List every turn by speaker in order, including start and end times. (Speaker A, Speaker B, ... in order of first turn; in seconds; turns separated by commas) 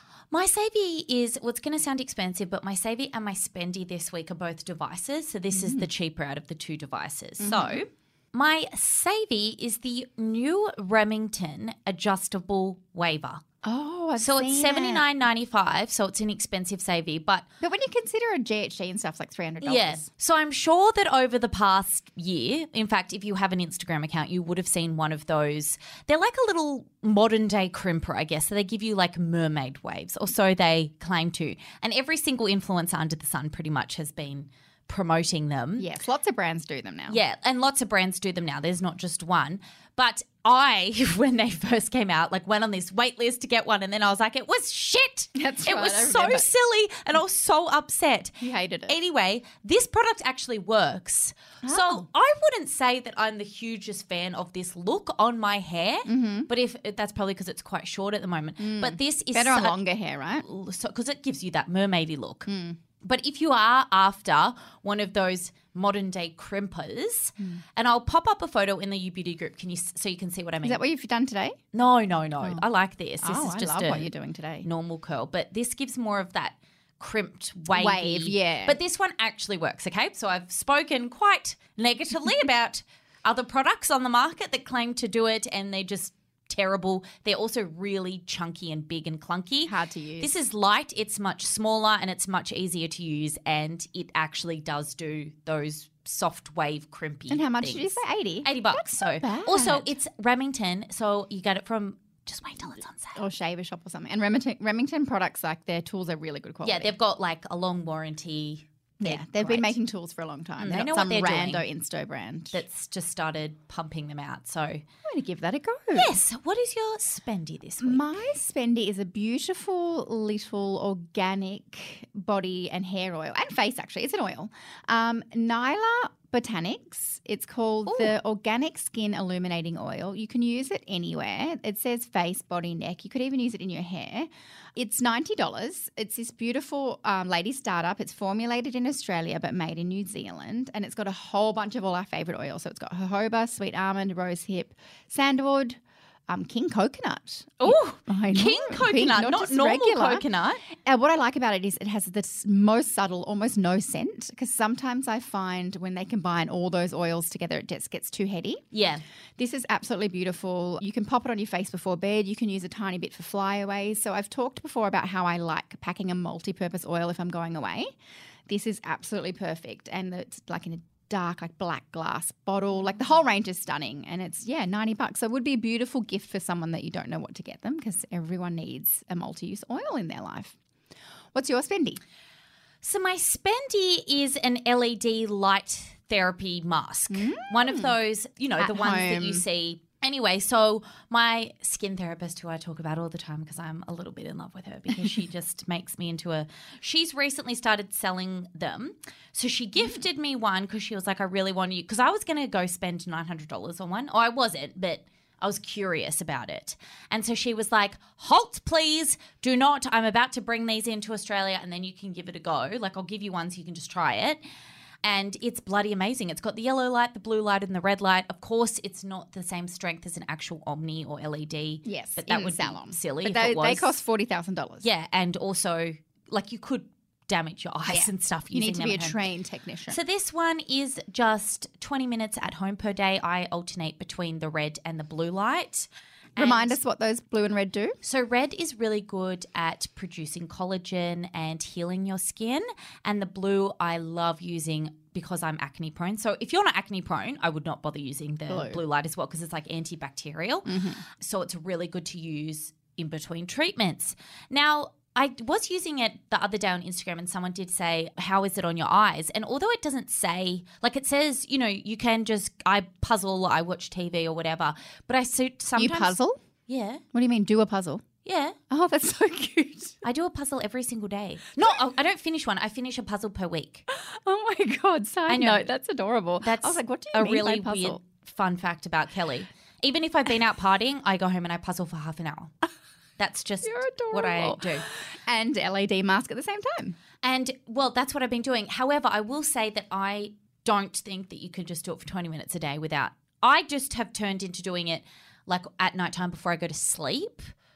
Speaker A: 0.3-13.4, Speaker B: 5.5-5.9, Speaker B: 7.4-7.8, Speaker B: 13.6-15.1, Speaker A: 14.2-17.5, Speaker B: 17.6-20.1, Speaker A: 19.6-35.9, Speaker B: 35.8-37.2, Speaker A: 37.1-59.8, Speaker B: 45.4-46.5, Speaker B: 48.4-49.0, Speaker B: 51.6-52.1, Speaker B: 56.1-56.5, Speaker B: 58.6-60.5, Speaker A: 60.4-62.5, Speaker B: 62.5-62.8, Speaker A: 63.0-70.8, Speaker B: 70.6-71.6, Speaker A: 71.7-74.1, Speaker B: 73.2-74.7, Speaker A: 74.6-103.2, Speaker B: 77.7-78.8, Speaker B: 89.7-90.3, Speaker B: 97.3-100.0, Speaker B: 103.2-106.9, Speaker A: 106.6-109.8, Speaker B: 109.0-112.6, Speaker A: 110.6-111.7, Speaker A: 112.5-114.8, Speaker B: 115.1-116.1, Speaker A: 115.9-118.3, Speaker B: 117.8-150.3, Speaker A: 127.9-128.2, Speaker A: 147.6-150.6, Speaker B: 150.8-158.6, Speaker A: 158.7-159.0, Speaker B: 159.4-167.9, Speaker B: 168.5-180.6, Speaker B: 181.3-182.0, Speaker A: 182.8-214.4, Speaker B: 187.1-187.9, Speaker B: 188.6-189.4, Speaker A: 215.0-224.0, Speaker B: 221.9-224.9, Speaker A: 224.8-229.2, Speaker B: 227.9-230.0, Speaker A: 229.9-236.8, Speaker B: 236.4-238.0, Speaker A: 238.0-267.0, Speaker B: 248.5-248.8, Speaker B: 250.7-251.0, Speaker B: 265.8-266.4, Speaker B: 267.1-268.0, Speaker A: 268.2-268.6, Speaker B: 268.7-270.0, Speaker A: 270.0-273.9, Speaker B: 273.9-278.0, Speaker A: 275.3-275.6, Speaker A: 276.4-282.5, Speaker A: 283.2-284.9, Speaker B: 283.6-287.0, Speaker A: 287.2-297.5